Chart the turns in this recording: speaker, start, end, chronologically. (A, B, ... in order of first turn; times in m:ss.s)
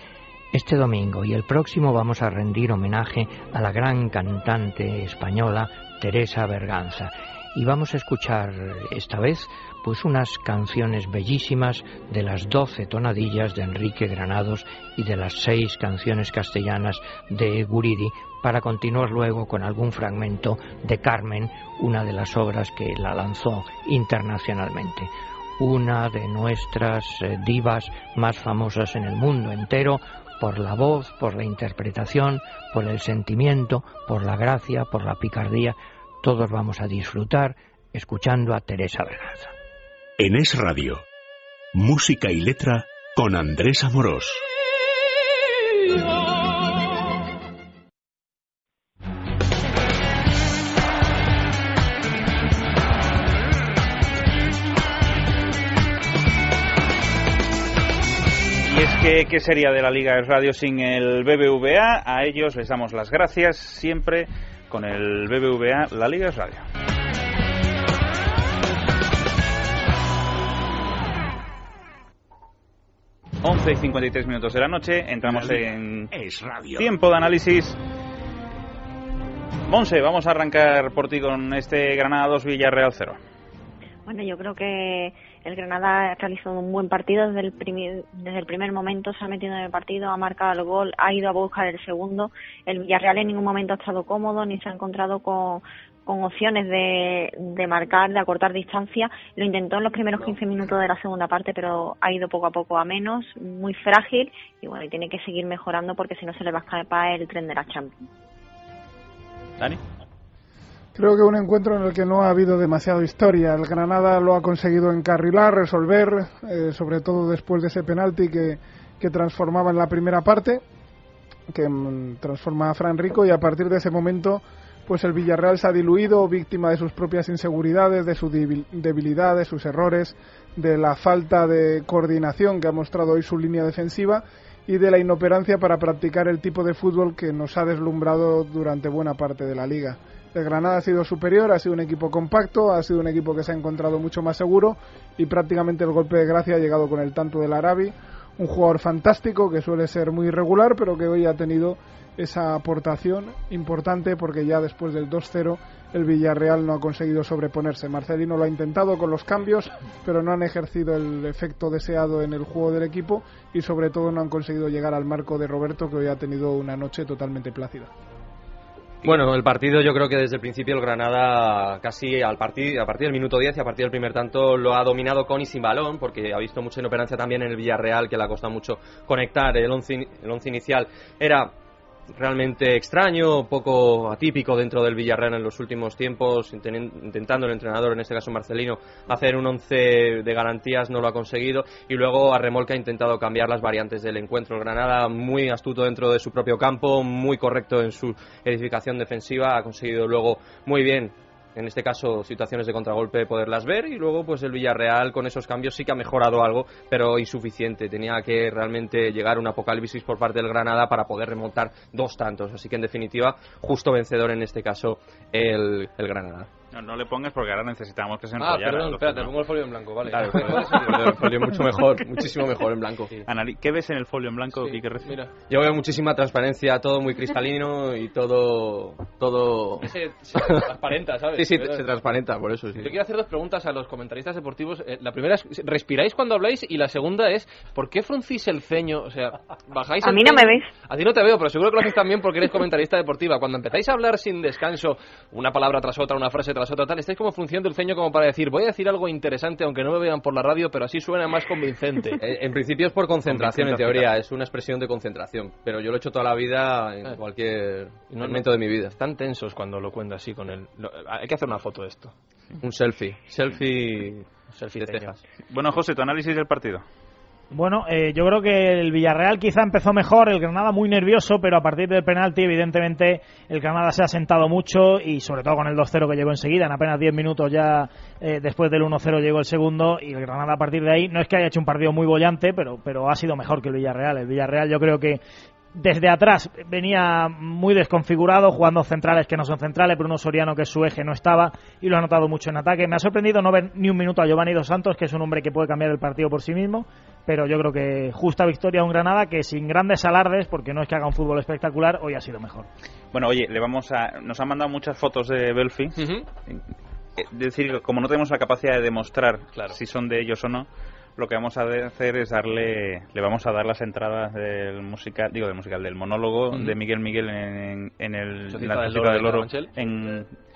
0:00.5-0:39.5 A
0:40.2-0:41.0 B
0:41.7-0:44.4 B
0:58.6-1:06.6 C
1:13.4-1:16.1 C
1:15.2-1:16.9 B
1:16.8-1:17.8 C
1:19.7-1:23.2 C
1:24.0-1:48.0 D
1:50.9-2:00.6 E
2:01.5-2:47.9 E
2:49.0-3:01.5 F
3:02.1-3:36.5 F
3:36.7-3:39.3 C
3:38.4-3:41.3 G
3:40.1-3:43.1 F
3:43.3-3:45.2 C
3:44.6-3:45.3 G
3:45.5-3:50.6 F
3:49.8-3:51.9 G
3:51.3-3:53.0 F
3:52.8-4:12.2 G
4:00.0-4:00.7 D
4:12.2-4:18.9 F
4:13.2-4:14.1 C
4:18.1-4:22.1 G
4:22.6-4:24.3 F
4:24.5-4:25.2 G
4:24.8-4:25.2 F
4:25.5-4:26.8 C
4:27.5-4:45.2 H
4:45.7-5:02.7 H
5:03.1-5:06.6 C
5:06.0-5:06.3 G
5:07.2-5:20.3 C
5:18.5-5:19.7 G